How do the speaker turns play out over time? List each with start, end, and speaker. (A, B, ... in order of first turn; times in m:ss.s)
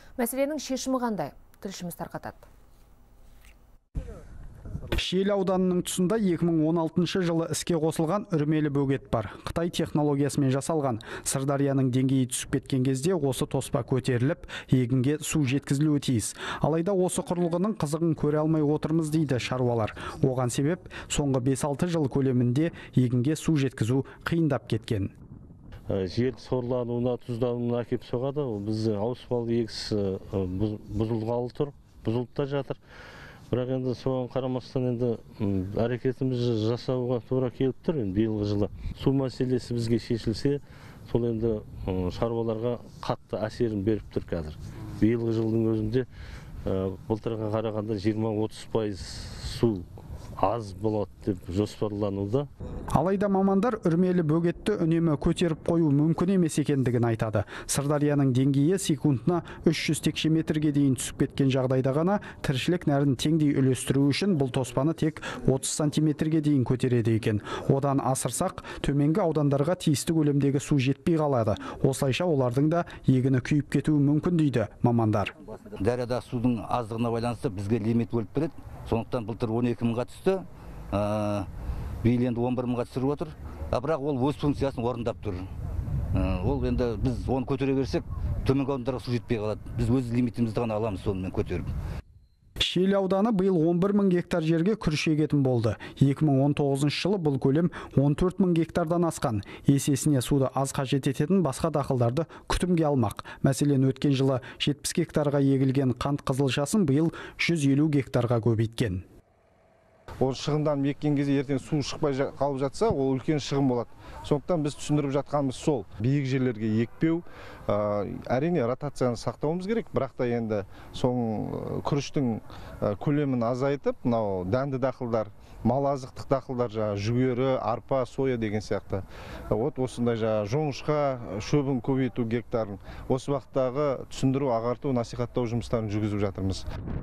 0:00.2-0:02.5 A
0:04.9-0:25.1 B
0:25.9-0:32.8 C
0:33.5-0:46.1 C
0:46.6-0:49.9 C
0:50.4-0:52.5 C
0:52.9-1:15.3 B
1:15.7-1:21.5 D
1:22.0-1:25.5 D
1:26.1-1:31.7 D
1:32.6-1:49.0 B
1:50.2-2:16.6 E